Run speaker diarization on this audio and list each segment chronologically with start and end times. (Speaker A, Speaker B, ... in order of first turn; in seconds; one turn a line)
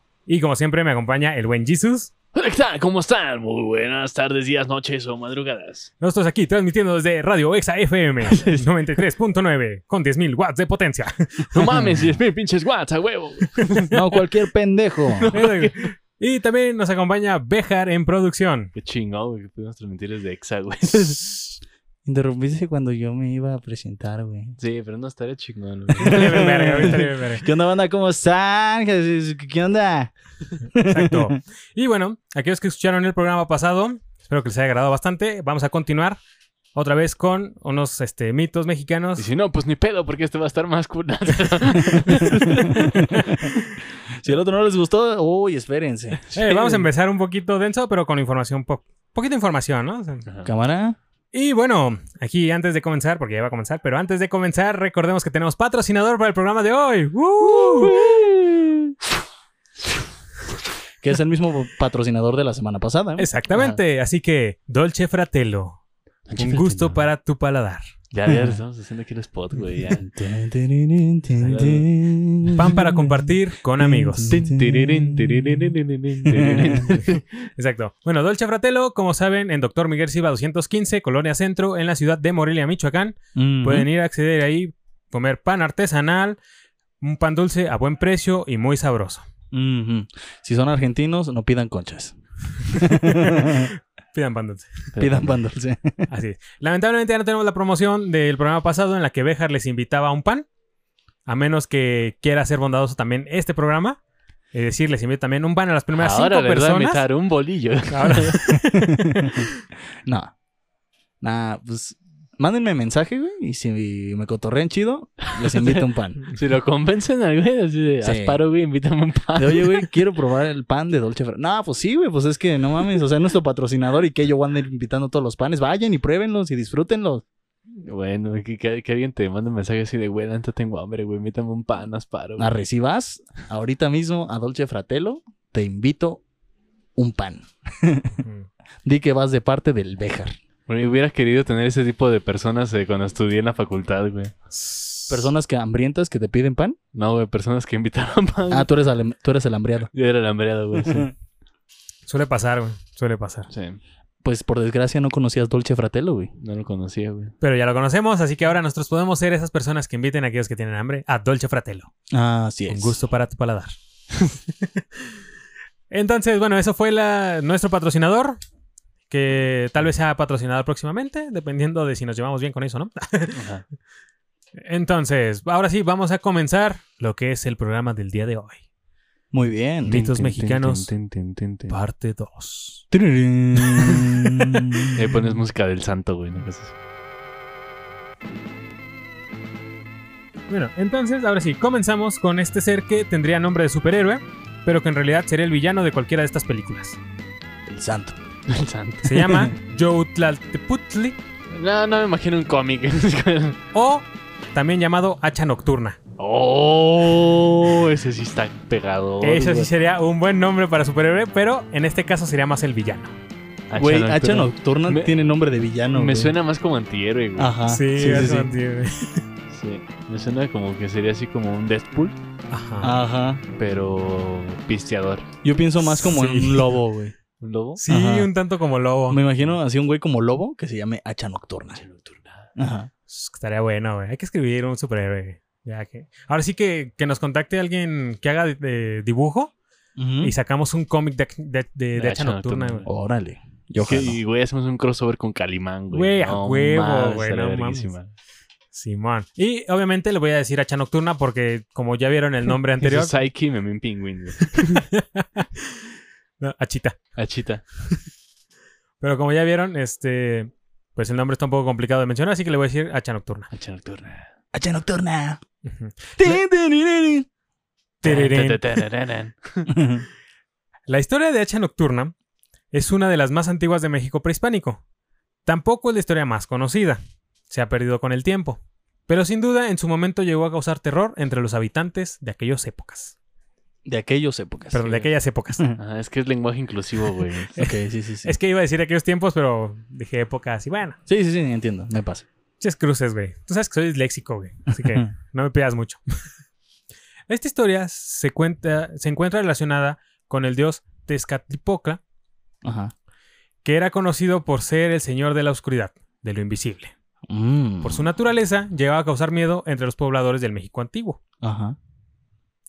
Speaker A: 0.3-2.1
Speaker B: 2.3-5.9
Speaker A: 6.0-11.8
Speaker B: 8.3-8.7
Speaker B: 11.5-14.1
Speaker C: 13.9-15.3
Speaker B: 15.1-15.9
Speaker A: 15.3-18.7
Speaker B: 18.7-21.2
Speaker C: 20.9-21.4
Speaker C: 22.1-24.6
Speaker B: 24.6-26.9
Speaker C: 25.9-30.1
Speaker A: 26.0-27.4
Speaker C: 30.7-31.4
Speaker A: 30.8-36.2
Speaker A: 36.7-39.3
Speaker B: 39.2-43.5
Speaker C: 42.2-43.5
Speaker C: 44.1-46.9
Speaker A: 46.3-50.2
Speaker C: 50.5-51.0
Speaker A: 51.3-58.0
Speaker C: 57.4-59.0
Speaker C: 61.0-63.3
Speaker A: 63.2-65.8
Speaker B: 63.5-63.8
Speaker B: 66.3-67.0
Speaker A: 66.4-67.8
Speaker B: 68.1-70.1
Speaker C: 68.3-68.6
Speaker C: 69.6-77.0
Speaker B: 71.4-71.9
Speaker A: 72.5-74.4
Speaker B: 74.3-77.2
Speaker A: 77.6-86.4
Speaker C: 83.3-83.9
Speaker A: 87.0-89.2
Speaker C: 89.5-93.7
Speaker A: 92.8-94.9
Speaker B: 94.9-95.3
Speaker C: 95.0-96.1
Speaker A: 96.1-100.5
Speaker A: 101.2-104.0
Speaker A: 104.5-107.0
Speaker B: 106.0-108.5
Speaker A: 107.9-109.5
Speaker C: 108.7-109.5
Speaker C: 110.0-110.3
Speaker C: 111.2-116.2
Speaker B: 115.3-119.9
Speaker C: 118.0-118.4
Speaker C: 119.4-127.2
Speaker B: 127.8-132.6
Speaker C: 132.4-136.2
Speaker C: 137.0-138.2
Speaker A: 138.2-138.5
Speaker C: 138.8-140.4
Speaker B: 140.7-144.3
Speaker A: 144.5-145.3
Speaker C: 145.1-146.8
Speaker B: 146.9-148.7
Speaker C: 148.5-149.9
Speaker B: 149.9-151.1
Speaker C: 150.8-151.1
Speaker A: 152.1-153.5
Speaker B: 153.5-153.8
Speaker C: 154.2-156.3
Speaker B: 156.4-157.3
Speaker A: 157.4-161.9
Speaker C: 162.1-163.0
Speaker A: 162.7-163.7
Speaker A: 165.9-168.4
Speaker A: 169.1-173.4
Speaker B: 173.3-173.7
Speaker A: 174.6-178.6
Speaker C: 179.3-180.0
Speaker A: 179.9-180.9
Speaker B: 179.9-181.7
Speaker A: 181.7-182.8
Speaker C: 182.9-185.3
Speaker B: 183.6-186.8
Speaker A: 190.5-197.0
Speaker C: 197.7-198.2
Speaker B: 198.5-199.3
Speaker A: 199.0-201.2
Speaker C: 199.3-199.5
Speaker B: 201.5-203.6
Speaker A: 203.7-206.0
Speaker B: 206.2-209.7
Speaker C: 207.1-207.9
Speaker A: 209.2-213.1
Speaker B: 213.7-215.1
Speaker C: 213.8-216.3
Speaker B: 215.9-217.6
Speaker C: 217.4-218.5
Speaker A: 217.7-219.2
Speaker B: 219.5-222.2
Speaker A: 222.5-223.0
Speaker C: 222.8-223.4
Speaker B: 223.6-225.3
Speaker C: 225.4-227.1
Speaker A: 225.8-226.8
Speaker B: 227.4-227.8
Speaker A: 227.8-229.2
Speaker C: 227.9-228.3
Speaker C: 229.1-231.8
Speaker B: 231.8-232.5
Speaker C: 232.6-232.9
Speaker A: 233.1-239.5
Speaker C: 239.9-240.3
Speaker A: 240.2-242.9
Speaker B: 241.9-242.9
Speaker C: 242.9-244.2
Speaker B: 243.8-248.1
Speaker A: 245.9-247.9
Speaker A: 248.7-253.1
Speaker B: 252.8-254.8
Speaker A: 254.6-255.8
Speaker A: 256.4-257.0
Speaker B: 257.2-257.6
Speaker A: 259.0-263.5
Speaker B: 263.5-264.2
Speaker C: 264.5-265.4
Speaker A: 265.7-266.4
Speaker C: 266.1-267.3
Speaker A: 268.0-268.7
Speaker B: 268.0-269.7
Speaker C: 269.7-270.1
Speaker A: 270.9-272.1
Speaker A: 272.7-274.8
Speaker A: 275.4-283.2
Speaker C: 283.9-284.9
Speaker A: 284.7-285.6
Speaker B: 285.8-287.7
Speaker C: 287.6-288.4
Speaker A: 288.2-291.0
Speaker C: 291.1-292.2
Speaker A: 292.6-296.0
Speaker C: 294.8-295.1
Speaker A: 297.3-302.0
Speaker C: 302.6-302.9
Speaker A: 303.6-306.9
Speaker C: 307.3-308.1
Speaker A: 307.8-311.2
Speaker C: 311.4-311.8